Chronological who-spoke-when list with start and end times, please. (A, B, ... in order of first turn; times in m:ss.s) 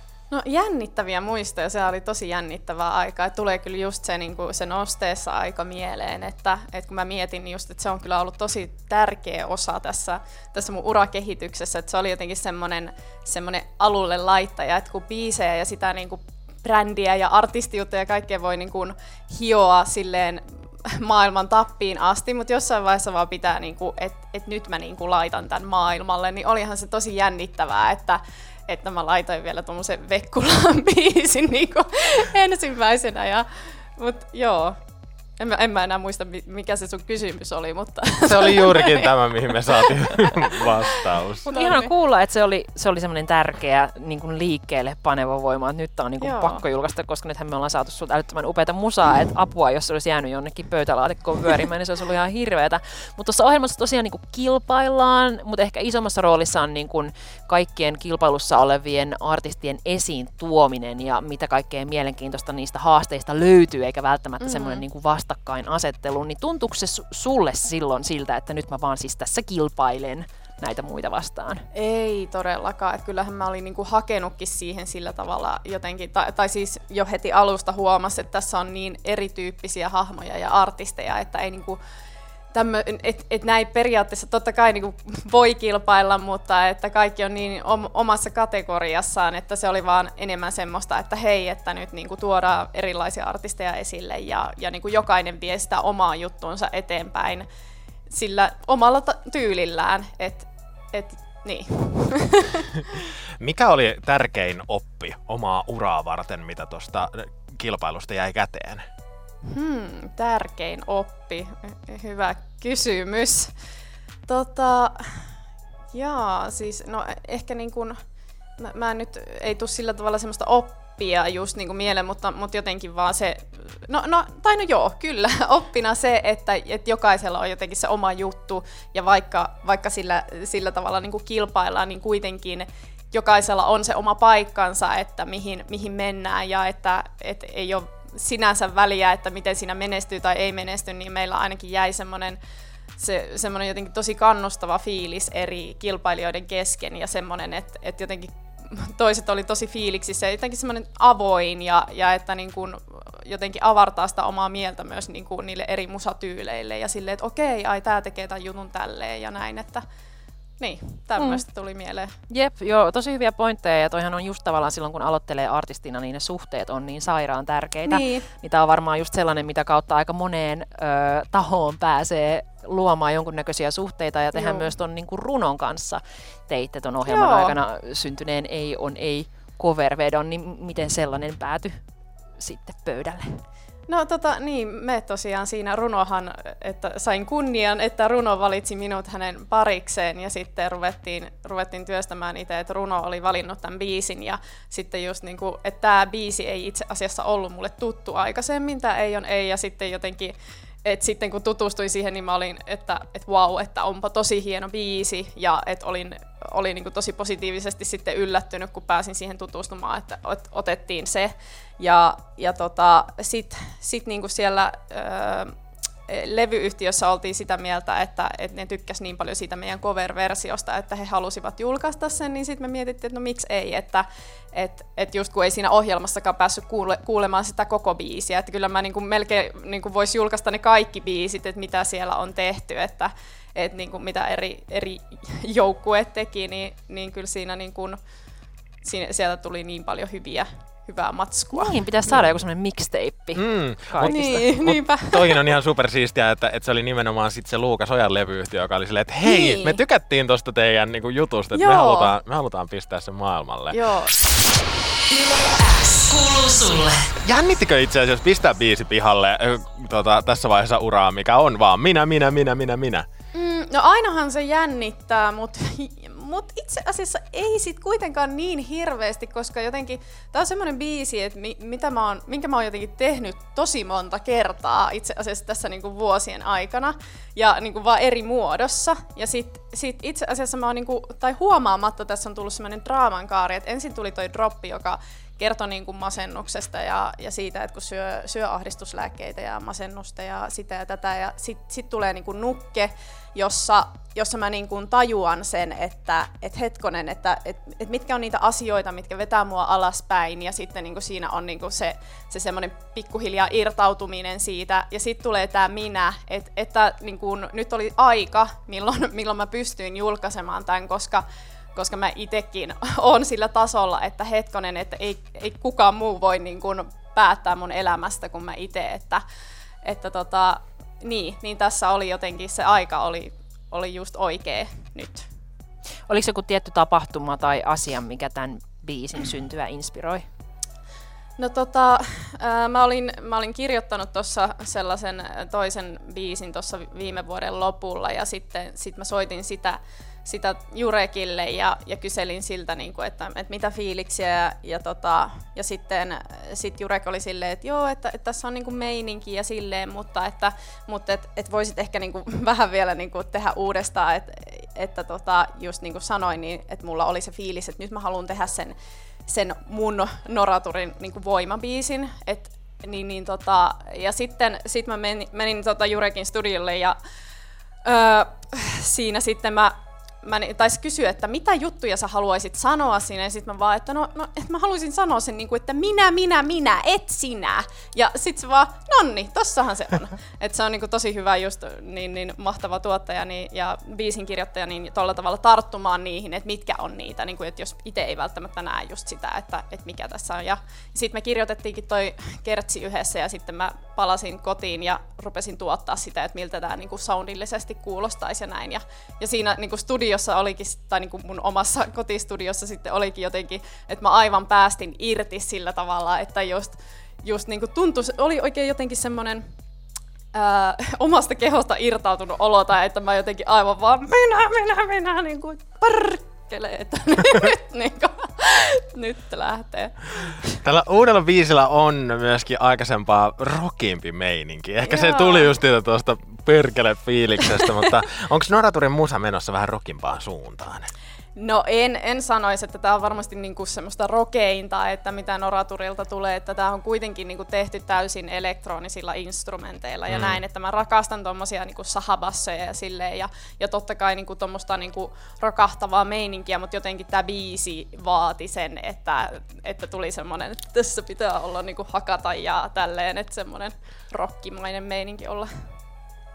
0:00.3-0:33.4 A
0:34.0-0:34.8 A
0:35.4-0:41.9 A
0:38.2-0:41.5 B
0:41.4-1:11.6 C
0:46.2-0:46.6 A
1:04.4-1:04.8 A
1:11.7-1:21.8 A
1:22.5-1:37.4 A
1:38.1-1:42.8 A
1:43.4-1:48.8 B
1:49.5-1:53.5 A
1:54.3-1:55.2 A
1:55.9-1:58.0 A
1:58.6-2:22.4 A
2:23.0-2:39.8 A
2:40.6-2:42.1 A
2:41.2-2:41.4 C
2:42.3-3:01.7 C
2:47.8-2:48.2 A
2:54.3-2:54.7 A
2:57.0-2:57.6 A
3:02.4-3:03.4 C
3:03.9-3:35.5 A
3:36.1-3:58.0 A
3:58.8-4:01.8 A
4:01.5-4:04.4 C
4:03.3-4:13.8 B
4:04.0-4:05.5 A
4:09.2-4:09.8 A
4:11.5-4:12.1 A
4:13.7-4:14.1 A
4:15.1-4:17.1 C
4:17.2-4:23.0 B
4:23.3-5:11.2 A
5:11.7-5:19.2 A
5:19.8-5:25.3 A
5:26.1-5:30.2 C
5:31.4-5:58.7 A
5:59.3-6:07.0 A
6:07.8-6:49.4 A
6:50.3-7:00.5 A
7:00.6-7:10.9 B
7:04.8-7:05.5 A
7:11.4-7:35.5 A
7:20.1-7:20.4 B